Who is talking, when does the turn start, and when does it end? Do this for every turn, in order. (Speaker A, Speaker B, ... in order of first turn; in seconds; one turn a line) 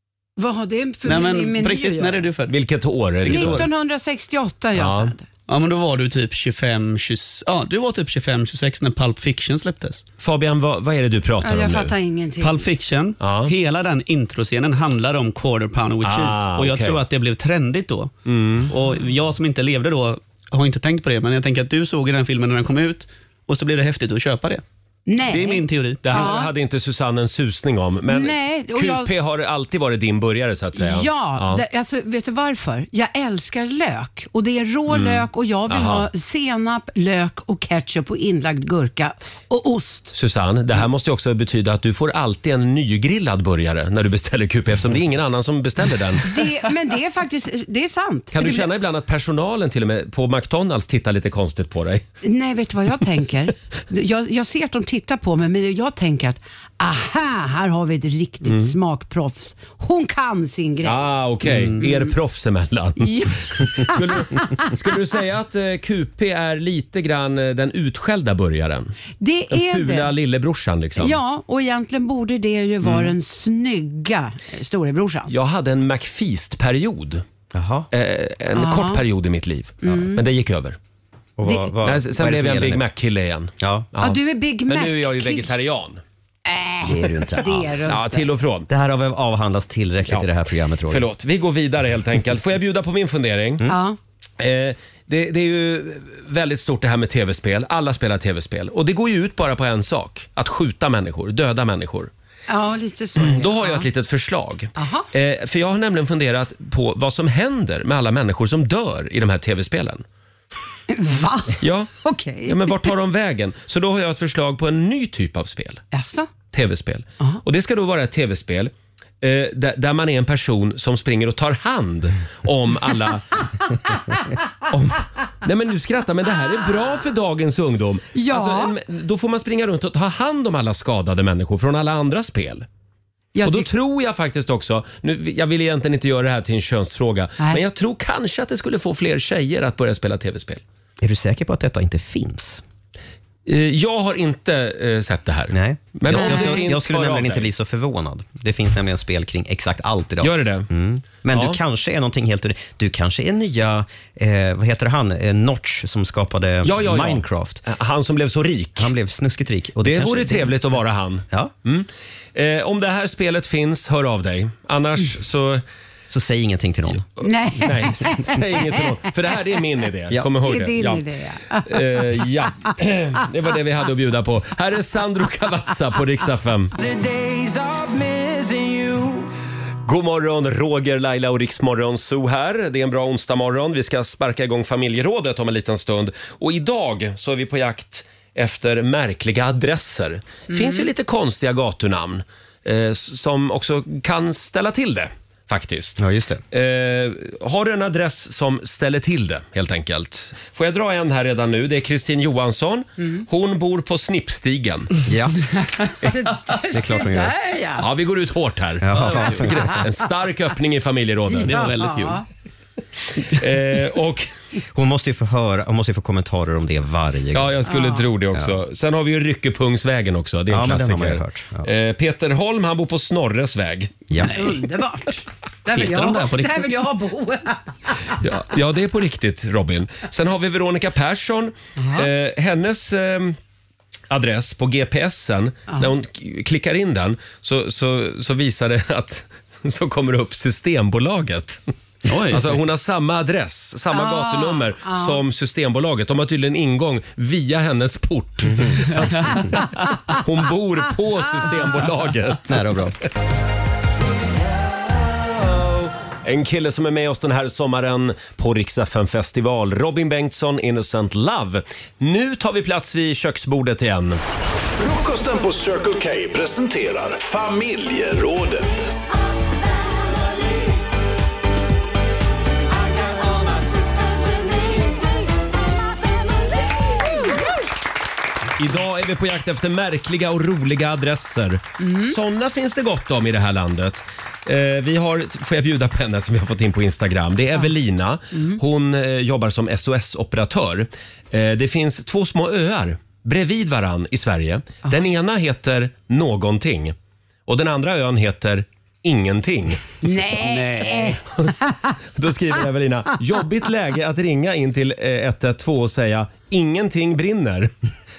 Speaker A: 0.4-2.2
Speaker B: 1.0-2.5
Speaker C: 2.5-3.7
Speaker B: 3.2-3.7
Speaker A: 3.2-5.2
Speaker C: 4.7-5.1
Speaker B: 5.5-10.0
Speaker C: 10.2-11.9
Speaker A: 11.4-12.6
Speaker B: 12.4-18.1
Speaker C: 13.2-13.5
Speaker C: 16.0-17.0
Speaker C: 18.2-18.7
Speaker B: 18.7-24.6
Speaker A: 25.1-26.5
Speaker B: 25.3-26.3
Speaker C: 26.0-31.6
Speaker A: 28.1-29.1
Speaker A: 30.8-40.1
Speaker C: 34.9-36.1
Speaker C: 40.1-46.3
Speaker A: 46.2-48.7
Speaker C: 48.3-52.0
Speaker A: 52.2-61.0
Speaker C: 58.4-58.8
Speaker C: 60.8-68.9
Speaker B: 61.5-61.8
Speaker A: 61.8-62.1
Speaker A: 63.0-64.7
Speaker A: 69.2-70.1
Speaker C: 69.5-71.2
Speaker A: 71.0-75.3
Speaker C: 72.8-73.1
Speaker C: 75.3-77.2
Speaker D: 77.5-77.9
Speaker C: 77.9-80.8
Speaker A: 78.5-79.0
Speaker A: 79.8-80.2
Speaker D: 81.4-82.8
Speaker C: 81.8-86.0
Speaker D: 83.6-83.9
Speaker A: 84.0-85.5
Speaker A: 86.5-88.2
Speaker D: 86.8-88.0
Speaker C: 87.8-88.7
Speaker D: 88.7-91.0
Speaker C: 90.9-93.6
Speaker A: 93.7-94.0
Speaker C: 94.4-102.1
Speaker A: 102.5-103.8
Speaker C: 103.2-110.0
Speaker A: 104.8-105.1
Speaker A: 110.9-112.9
Speaker C: 111.6-115.8
Speaker A: 115.9-116.3
Speaker C: 116.5-123.3
Speaker C: 124.7-132.7
Speaker A: 128.1-128.7
Speaker A: 133.3-133.7
Speaker C: 133.4-140.6
Speaker D: 141.0-142.6
Speaker C: 143.4-147.5
Speaker D: 145.5-157.6
Speaker A: 146.1-146.7
Speaker C: 150.2-150.7
Speaker C: 151.3-151.6
Speaker C: 156.6-158.9
Speaker D: 158.8-160.5
Speaker C: 159.8-165.6
Speaker D: 166.1-167.1
Speaker A: 167.2-168.8
Speaker C: 167.6-176.7
Speaker A: 170.4-171.8
Speaker E: 176.8-179.3
Speaker C: 179.8-196.0
Speaker A: 190.5-190.9
Speaker D: 196.0-196.4
Speaker C: 196.5-204.9
Speaker D: 205.1-205.4
Speaker A: 206.0-207.8
Speaker D: 206.7-207.3
Speaker C: 207.8-211.6
Speaker D: 208.8-209.7
Speaker B: 209.1-209.4
Speaker B: 211.4-212.2
Speaker A: 211.4-212.2
Speaker C: 213.3-214.3
Speaker D: 214.7-217.6
Speaker C: 217.3-224.0
Speaker A: 217.7-218.0
Speaker D: 220.5-221.7
Speaker A: 224.2-228.2
Speaker B: 224.2-224.5
Speaker B: 225.7-226.7
Speaker C: 228.2-233.4
Speaker A: 231.8-232.1
Speaker C: 234.1-241.6
Speaker B: 242.1-242.5
Speaker C: 242.3-252.9
Speaker A: 243.9-245.2
Speaker D: 248.5-249.2
Speaker D: 252.5-253.0
Speaker C: 255.4-264.2
Speaker F: 264.7-268.9
Speaker C: 278.6-296.9
Speaker A: 281.8-282.1
Speaker A: 288.3-288.6
Speaker C: 297.5-300.0
Speaker A: 300.0-301.2
Speaker B: 300.4-301.2
Speaker C: 302.1-307.7